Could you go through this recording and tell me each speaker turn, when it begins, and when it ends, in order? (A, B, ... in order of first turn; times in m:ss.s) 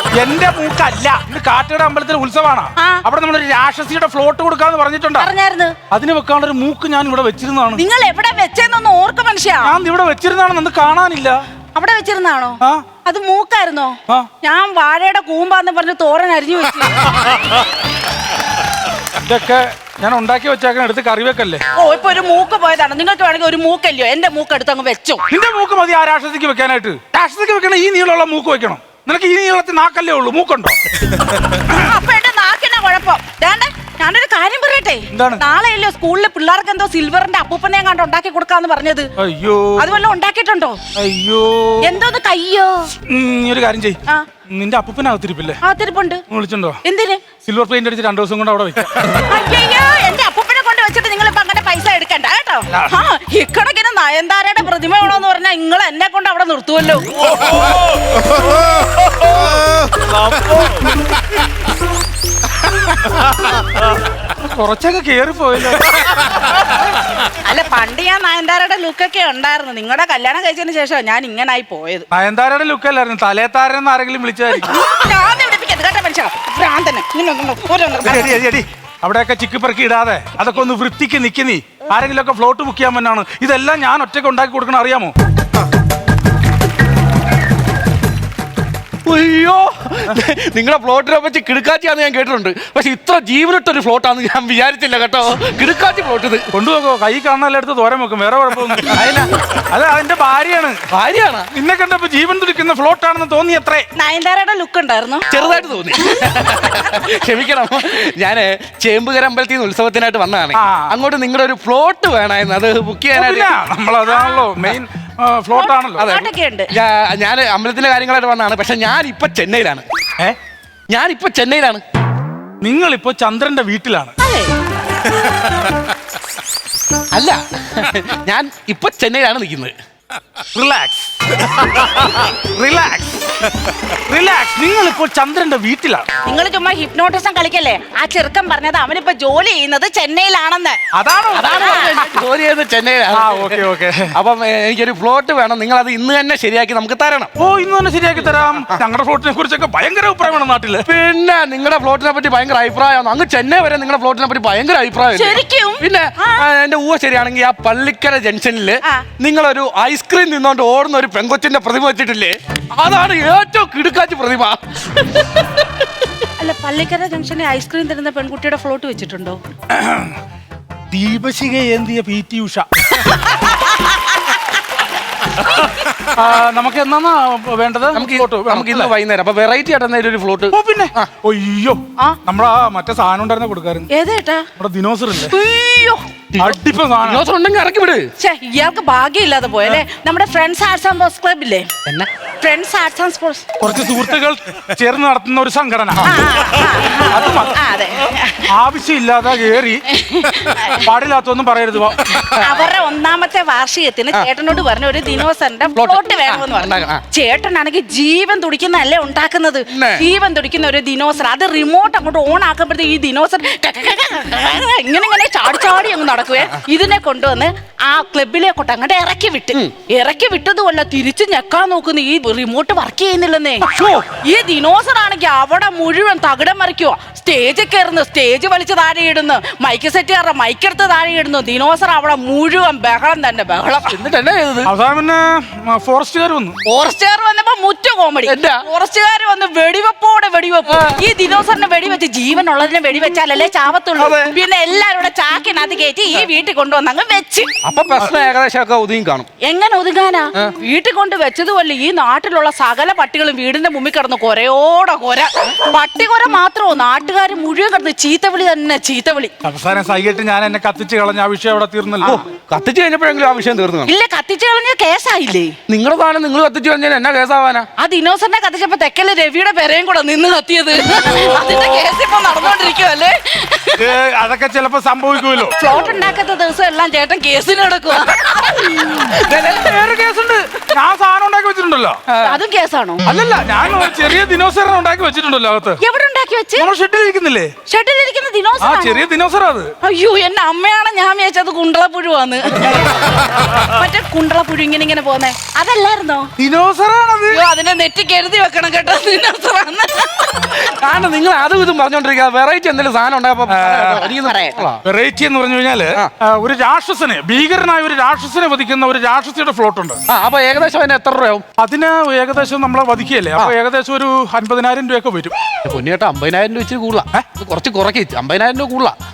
0:00.2-0:05.3 A
0:02.8-0:03.0 B
0:05.2-0:05.8 B
0:05.9-0:07.8 A
0:07.8-0:09.8 B
0:09.6-0:11.5 A
0:11.7-0:17.3 B
0:19.2-0:21.6 A
0:21.8-0:25.2 B
0:25.3-0:31.8 A
0:31.7-0:39.1 B
0:35.1-0:35.4 A
0:39.2-0:39.9 A
0:39.8-0:40.8 B
0:41.0-0:41.9 A
0:41.8-0:42.9 B
0:43.1-0:45.6 A
0:45.6-0:46.2 B
0:46.3-0:46.8 A
0:46.8-0:47.2 B
0:47.4-0:49.1 A
0:49.1-0:57.1 B
1:04.4-1:06.2 A
1:07.3-1:12.1 B
1:12.1-1:14.7 A
1:14.6-1:18.4 B
1:18.0-1:25.1 A
1:29.0-1:36.5 C
1:36.5-1:39.0 A
1:38.7-1:39.3 C
1:39.7-1:40.9 A
1:40.9-1:41.5 C
1:41.5-1:43.9 A
1:44.0-1:45.2 B
1:45.3-1:53.5 C
1:46.1-1:46.7 B
1:50.6-1:51.0 A
1:53.1-1:56.1 A
1:54.1-1:54.5 B
1:55.5-1:56.7 B
1:56.0-1:59.8 C
2:00.9-2:01.8 C
2:02.6-2:04.1 A
2:04.2-2:04.5 B
2:07.1-2:09.7 C
2:10.5-2:16.1 A
2:16.2-2:20.8 B
2:20.9-2:22.2 A
2:21.3-2:27.3 C
2:21.5-2:22.1 B
2:23.1-2:24.2 A
2:27.4-2:30.9 A
2:28.4-2:28.8 C
2:30.9-2:45.9 C
2:35.1-2:36.4 B
2:46.4-2:49.4 B
2:49.7-2:50.2 A
2:50.9-2:53.0 A
2:53.1-2:54.2 B
2:56.0-2:58.9 A
2:57.9-3:01.2 C
3:00.5-3:03.9 A
3:03.9-3:04.5 B
3:04.6-3:05.4 A
3:05.2-3:06.1 B
3:06.3-3:08.1 C
3:06.4-3:07.2 A
3:08.2-3:11.7 B
3:12.4-3:13.6 B
3:13.6-3:16.2 A
3:16.0-3:18.5 B
3:17.0-3:17.6 A
3:18.5-3:19.9 A
3:19.9-3:20.9 B
3:20.6-3:22.3 A
3:22.1-3:22.7 C
3:22.4-3:54.0 B
3:25.8-3:27.0 C
3:29.7-3:30.1 C
3:43.6-3:44.1 C
3:53.9-3:54.7 C
3:54.7-3:56.6 A
3:56.6-4:07.5 B
3:58.2-3:58.6 C
4:00.7-4:01.0 C
4:04.0-4:04.4 C
4:07.6-4:09.3 C
4:09.4-4:19.3 B
4:19.4-4:22.2 A
4:22.0-4:23.9 C
4:23.9-4:25.6 B
4:25.7-4:27.7 C
4:27.8-4:33.8 B
4:31.3-4:31.6 C
4:33.8-4:35.6 A
4:35.6-4:39.6 B
4:39.1-4:40.4 C
4:40.7-4:42.1 A
4:42.1-4:42.4 C
4:42.2-4:43.1 B
4:43.0-4:45.8 A
4:45.8-4:46.7 B
4:46.6-4:47.5 A
4:47.7-4:49.1 B
4:48.6-4:49.7 A
4:49.8-4:56.3 B
4:56.4-4:57.4 A
4:57.3-5:00.6 B
5:00.6-5:04.8 C
5:03.5-5:04.1 A
5:04.0-5:04.7 B
5:04.8-5:10.0 A
5:10.1-5:11.4 C
5:11.6-5:15.4 A
5:15.6-5:19.0 C